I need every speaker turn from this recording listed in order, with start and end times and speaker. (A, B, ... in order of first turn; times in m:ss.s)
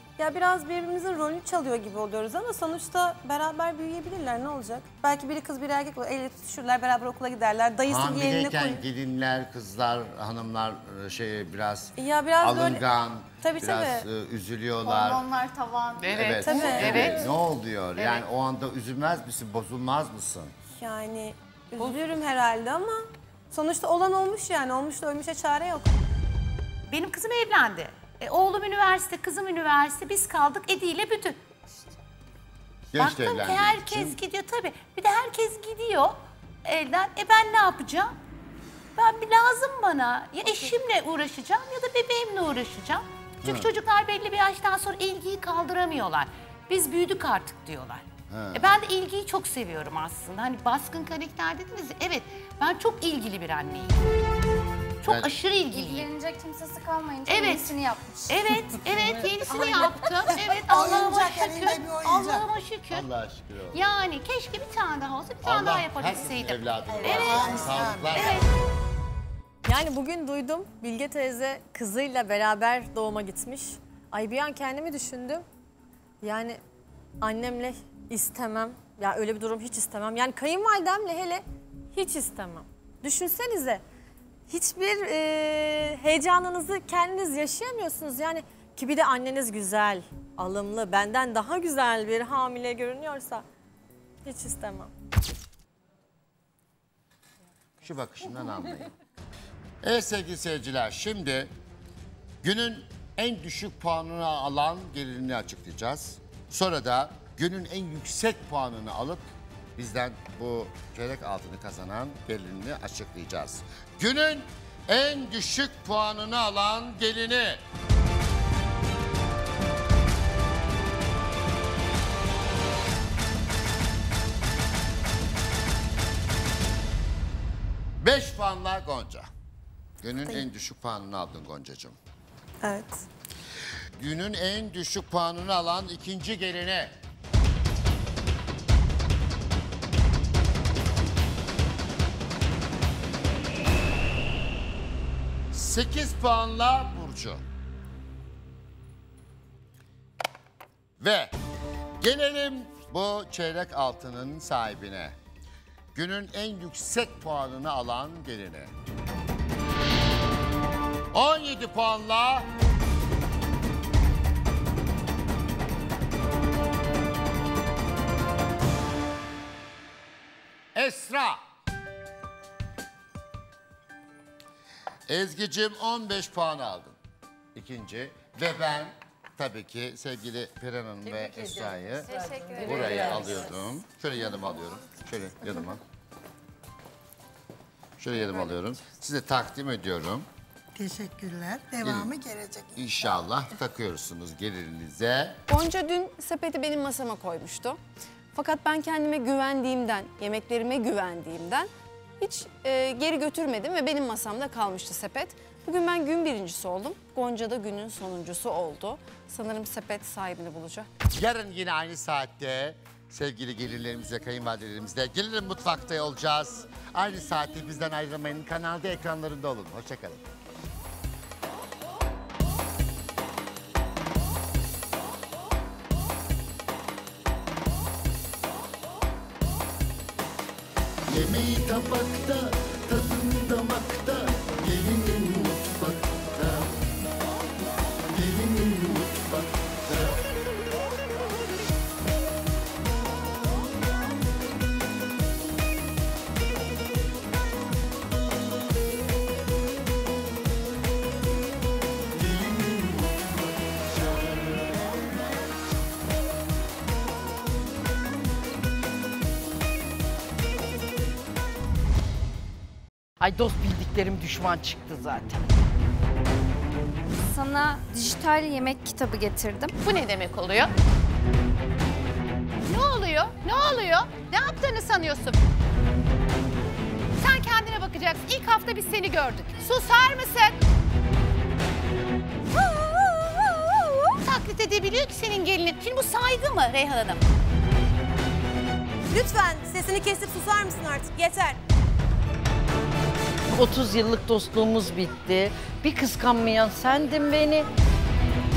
0:00.2-0:08.8 A
0:07.9-0:15.3 B
0:12.0-0:12.8 A
0:13.4-0:14.0 A
0:14.8-0:17.2 A
0:16.0-0:17.3 C
0:16.1-0:20.6 B
0:16.5-0:17.0 D
0:18.0-0:18.2 C
0:20.8-0:25.9 A
0:26.9-0:31.4 C
0:32.9-0:34.2 B
0:33.0-0:38.2 C
0:39.0-0:54.0 C
0:43.4-0:43.7 B
0:48.3-0:48.7 B
0:55.0-0:56.1 C
0:55.0-0:55.3 B
0:55.7-0:58.4 E
0:57.3-1:03.1 C
0:59.6-1:00.3 D
1:00.6-1:02.4 F
1:02.9-1:03.8 B
1:03.7-1:08.5 C
1:05.4-1:08.4 B
1:07.0-1:08.4 F
1:09.6-1:15.4 G
1:16.2-1:16.6 G
1:17.2-1:23.8 G
1:24.5-1:33.4 G
1:34.2-1:34.9 G
1:37.8-1:38.9 B
1:39.8-1:41.5 B
1:42.4-1:57.6 B
2:08.0-2:09.3 B
2:10.0-2:12.0 B
2:12.6-2:13.0 A
2:14.0-2:17.0 B
2:25.5-2:27.4 B
2:31.0-2:31.3 B
2:32.0-2:35.2 B
2:36.0-2:38.7 B
2:41.1-2:42.5 B
2:50.7-2:51.4 B
2:55.1-2:57.0 B
2:57.6-3:02.1 B
3:01.0-3:03.5 H
3:02.1-3:03.5 D
3:02.1-3:03.5 E
3:02.6-3:05.8 B
3:08.0-3:10.3 B
3:10.8-3:12.7 F
3:11.8-3:12.1 B
3:12.8-3:15.4 B
3:15.5-3:17.8 D
3:18.3-3:30.9 D
3:31.1-3:40.2 B
3:51.1-3:56.7 I
3:58.1-4:00.2 I
4:12.4-4:13.2 I
4:23.2-4:25.6 H
4:27.2-4:29.8 E
4:29.8-4:30.7 C
4:32.6-4:35.4 C
4:37.2-4:40.6 C
4:43.2-4:43.6 G
4:44.2-4:47.3 C
4:49.1-4:51.6 A
4:53.5-4:57.7 H